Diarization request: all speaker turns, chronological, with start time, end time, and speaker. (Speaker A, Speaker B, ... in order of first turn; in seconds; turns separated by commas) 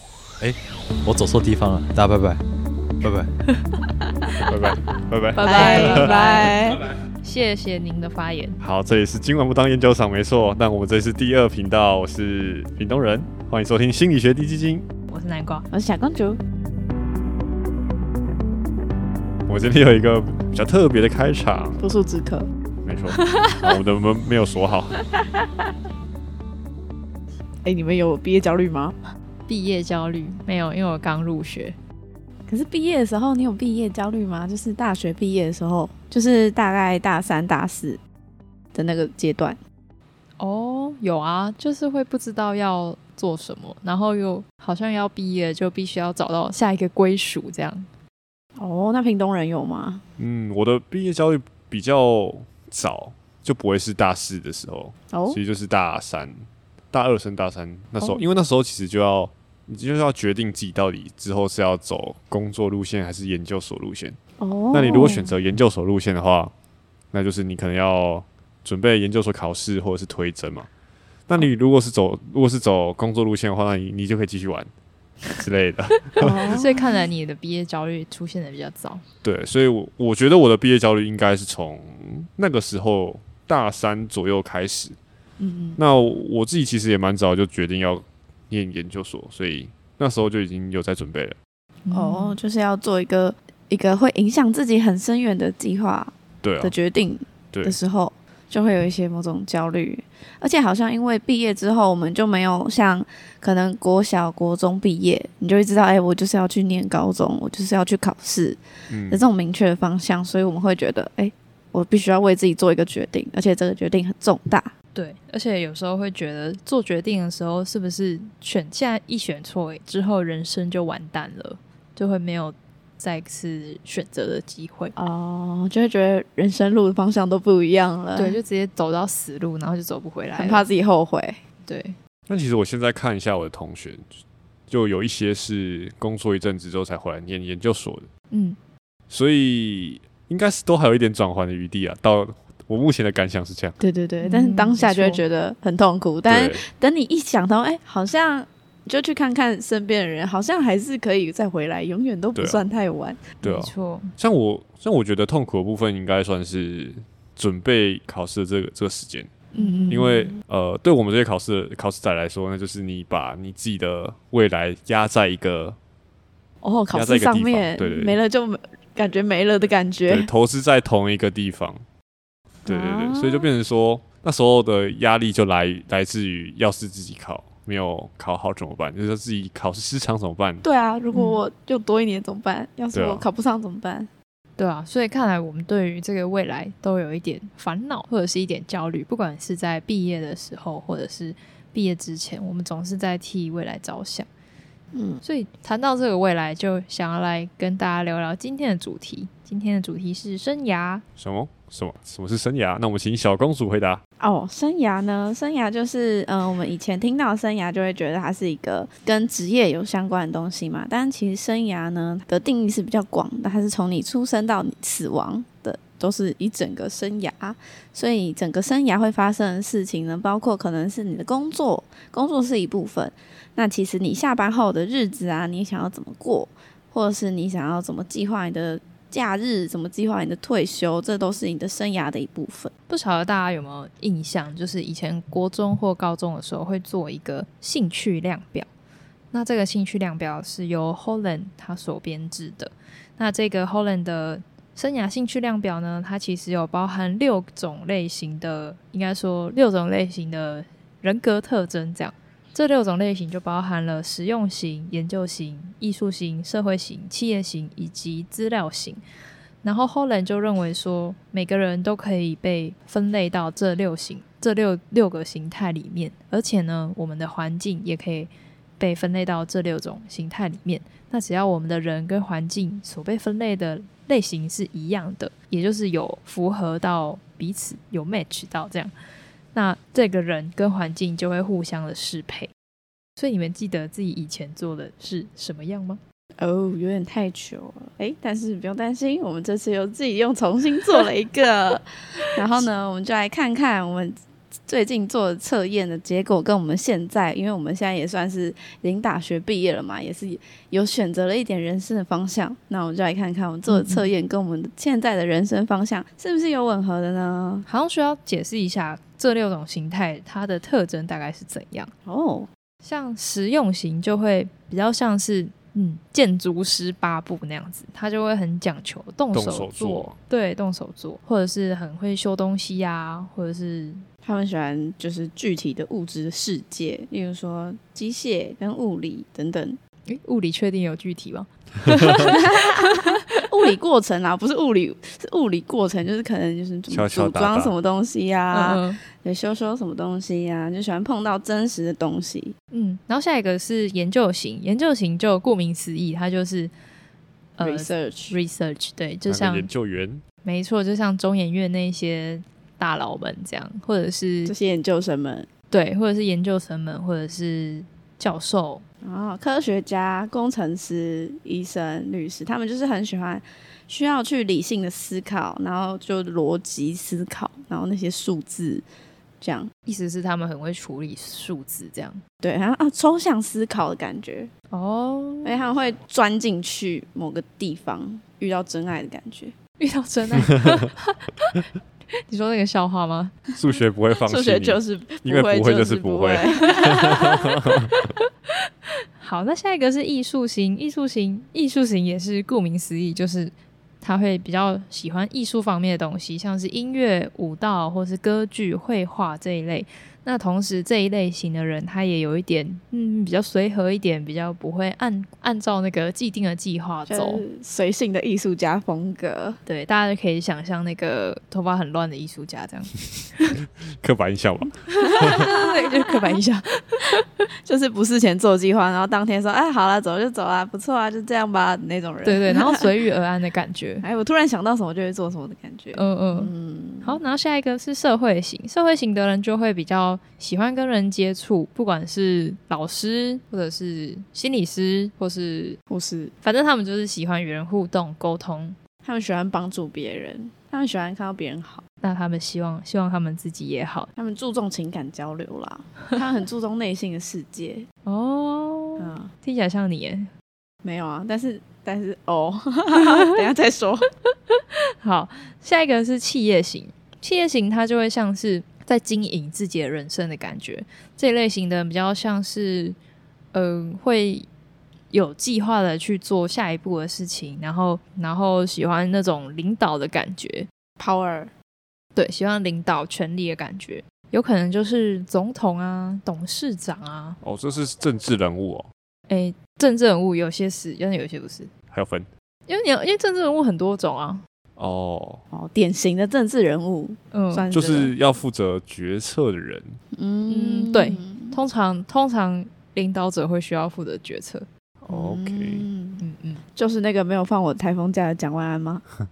Speaker A: 0.4-2.4, Speaker A: 3.0-3.3, Speaker B: 4.5-6.1, Speaker C: 5.3-6.6, Speaker D: 5.4-6.8, Speaker C: 7.2-8.6, Speaker B: 8.6-14.8, Speaker C: 15.1-15.7, Speaker D: 15.7-16.4, Speaker B: 19.5-21.8, Speaker D: 21.8-22.5, Speaker B: 22.8-25.0, Speaker C: 23.2-23.6, Speaker D: 25.2-25.7, Speaker D: 27.6-28.9, Speaker C: 29.5-31.7, Speaker D: 32.5-38.0, Speaker D: 38.7-39.6, Speaker C: 40.4-47.9, Speaker D: 48.6-50.0, Speaker B: 50.2-64.2, Speaker D: 55.1-55.4, Speaker D: 64.4-65.3, Speaker B: 64.7-66.5, Speaker B: 67.1-70.7, Speaker B: 71.3-74.7, Speaker B: 75.3-76.4, Speaker D: 76.2-77.0, Speaker C: 76.5-79.0, Speaker B: 79.2-85.0, Speaker D: 85.4-85.8, Speaker B: 85.8-91.3, Speaker C: 91.9-92.3, Speaker D: 91.9-108.6, Speaker B: 96.4-96.7, Speaker B: 97.5-97.8, Speaker B: 108.9-109.2, Speaker D: 109.1-114.7, Speaker C: 114.9-124.9, Speaker D: 125.0-128.4, Speaker C: 128.2-130.6, Speaker D: 130.4-131.4, Speaker C: 131.7-131.9, Speaker B: 132.3-134.1, Speaker B: 134.7-138.1, Speaker C: 138.3-138.6, Speaker B: 139.1-143.8, Speaker D: 143.8-153.3, Speaker C: 144.2-145.2, Speaker B: 146.2-146.6, Speaker B: 152.3-152.6, Speaker C: 153.4-154.1, Speaker B: 153.4-159.3, Speaker D: 159.5-160.3, Speaker C: 159.6-160.1, Speaker B: 159.9-165.8, Speaker D: 166.6-170.3, Speaker B: 166.9-168.2, Speaker B: 170.1-171.8, Speaker D: 172.7-173.5, Speaker B: 172.7-180.6, Speaker D: 180.6-184.1, Speaker C: 181.1-181.4, Speaker B: 182.9-183.2, Speaker C: 184.6-194.3, Speaker D: 194.9-195.2, Speaker C: 195.2-201.0, Speaker B: 201.2-204.0, Speaker D: 204.2-232.7, Speaker C: 232.9-238.7, Speaker C: 239.3-259.0, Speaker C: 259.6-278.9, Speaker C: 279.5-282.5, Speaker C: 283.2-286.0, Speaker D: 286.4-307.7, Speaker C: 303.7-304.1, Speaker C: 307.7-311.9, Speaker D: 312.1-312.5, Speaker C: 312.8-324.0, Speaker B: 319.3-320.1, Speaker D: 324.2-329.8, Speaker C: 330.1-333.1, Speaker D: 332.3-342.5, Speaker B: 336.9-337.7, Speaker C: 338.5-339.0, Speaker C: 342.7-346.7, Speaker C: 347.6-349.7, Speaker D: 347.6-348.4, Speaker B: 349.3-350.2, Speaker C: 350.4-354.5, Speaker D: 354.4-355.5, Speaker C: 355.7-358.8, Speaker D: 359.0-368.8, Speaker D: 369.4-369.7, Speaker C: 369.9-372.2, Speaker D: 372.4-374.5, Speaker C: 374.7-375.6, Speaker D: 375.4-379.5, Speaker C: 379.8-381.6, Speaker C: 382.3-383.4, Speaker B: 383.6-387.9, Speaker D: 384.2-387.3, Speaker C: 386.8-387.3, Speaker C: 387.9-388.2, Speaker C: 389.2-407.4, Speaker D: 407.1-409.6, Speaker C: 409.6-413.6, Speaker B: 414.0-415.4, Speaker C: 414.9-417.2, Speaker D: 415.3-416.4, Speaker D: 417.6-422.9, Speaker C: 422.2-424.0, Speaker D: 424.0-427.2, Speaker C: 425.9-426.5, Speaker C: 427.0-435.8, Speaker D: 435.9-436.3, Speaker C: 436.4-438.8, Speaker D: 439.0-441.8, Speaker C: 442.0-444.1, Speaker D: 444.1-447.9, Speaker C: 448.1-450.3, Speaker D: 449.0-449.3, Speaker D: 450.8-454.1, Speaker C: 453.0-453.3, Speaker C: 454.5-463.0, Speaker C: 463.5-464.5, Speaker C: 465.1-470.7, Speaker D: 471.0-471.5, Speaker C: 472.1-477.4, Speaker B: 477.4-478.9, Speaker C: 479.3-481.7, Speaker B: 481.9-482.3, Speaker C: 482.7-484.4, Speaker B: 484.8-485.4, Speaker D: 485.5-488.1, Speaker C: 487.3-487.6, Speaker B: 487.7-490.0, Speaker D: 490.1-491.6, Speaker C: 490.5-494.6, Speaker B: 495.1-495.8, Speaker D: 495.1-496.2, Speaker C: 496.2-496.6, Speaker D: 496.8-499.0